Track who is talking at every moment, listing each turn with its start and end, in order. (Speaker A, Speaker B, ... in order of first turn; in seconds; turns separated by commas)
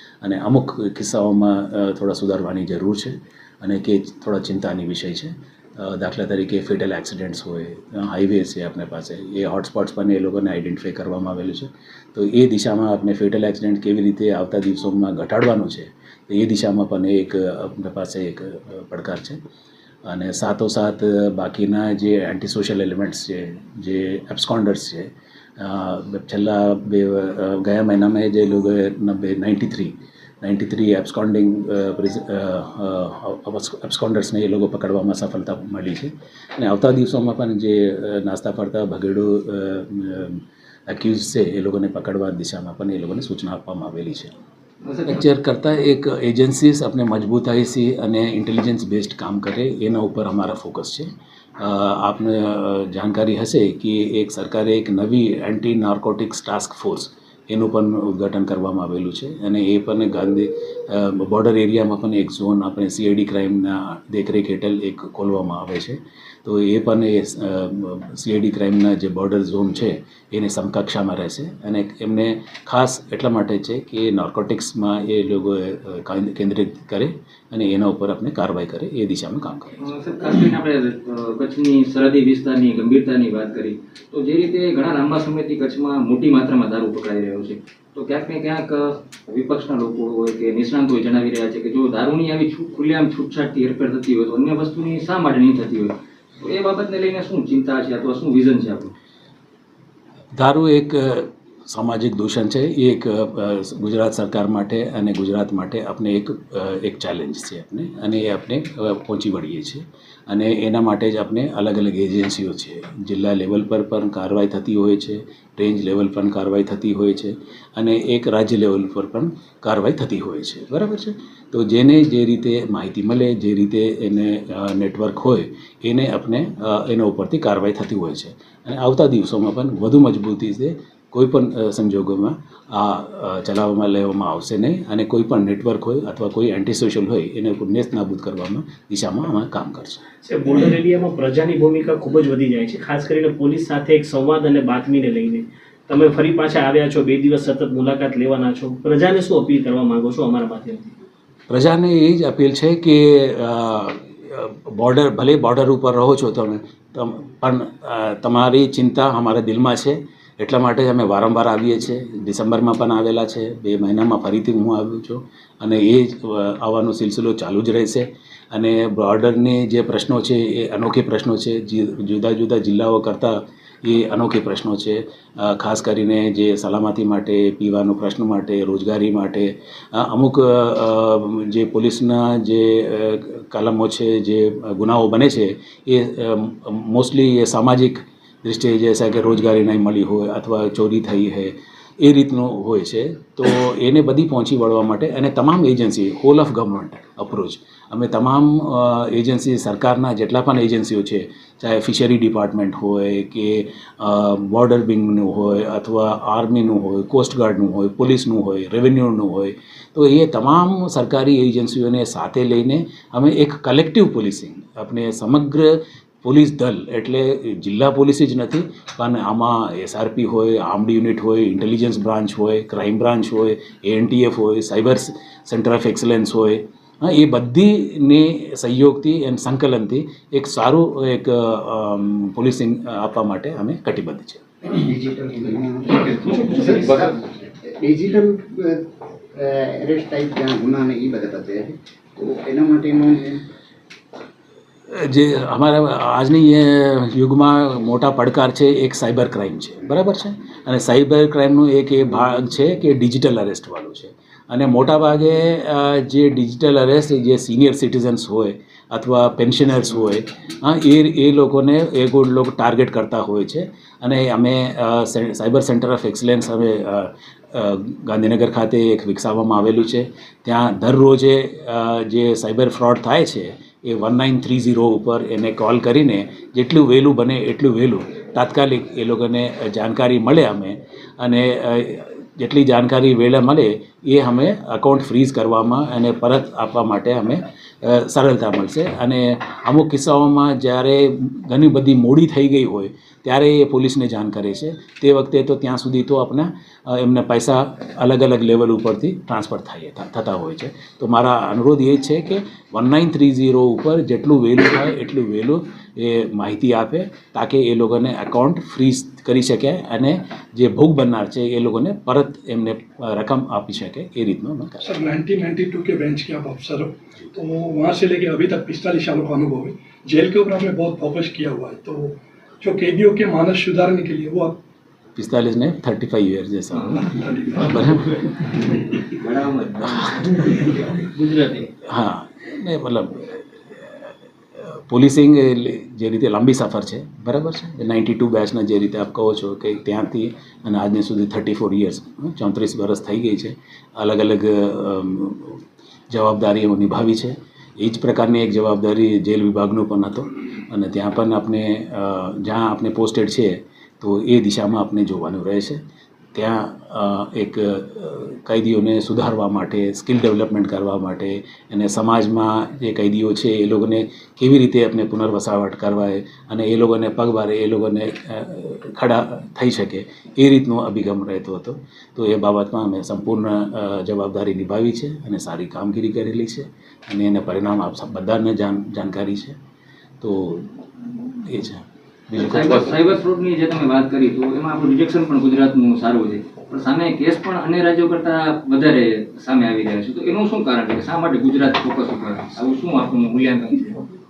Speaker A: 0.2-19.4, Speaker A: 20.1-44.3, Speaker B: 44.8-45.1, Speaker A: 45.1-51.1, Speaker A: 51.6-79.8, Speaker B: 79.8-98.9, Speaker A: 100.3-140.0, Speaker C: 140.2-150.9, Speaker A: 151.5-234.4, Speaker D: 234.6-243.4, Speaker C: 236.5-236.9, Speaker A: 244.9-314.9, Speaker E: 314.8-324.6, Speaker A: 325.1-326.9, Speaker E: 326.9-327.8, Speaker A: 327.6-328.4, Speaker B: 329.0-331.2, Speaker C: 331.2-331.6, Speaker A: 331.9-355.8, Speaker A: 356.4-379.6, Speaker A: 380.2-383.1, Speaker B: 382.3-394.1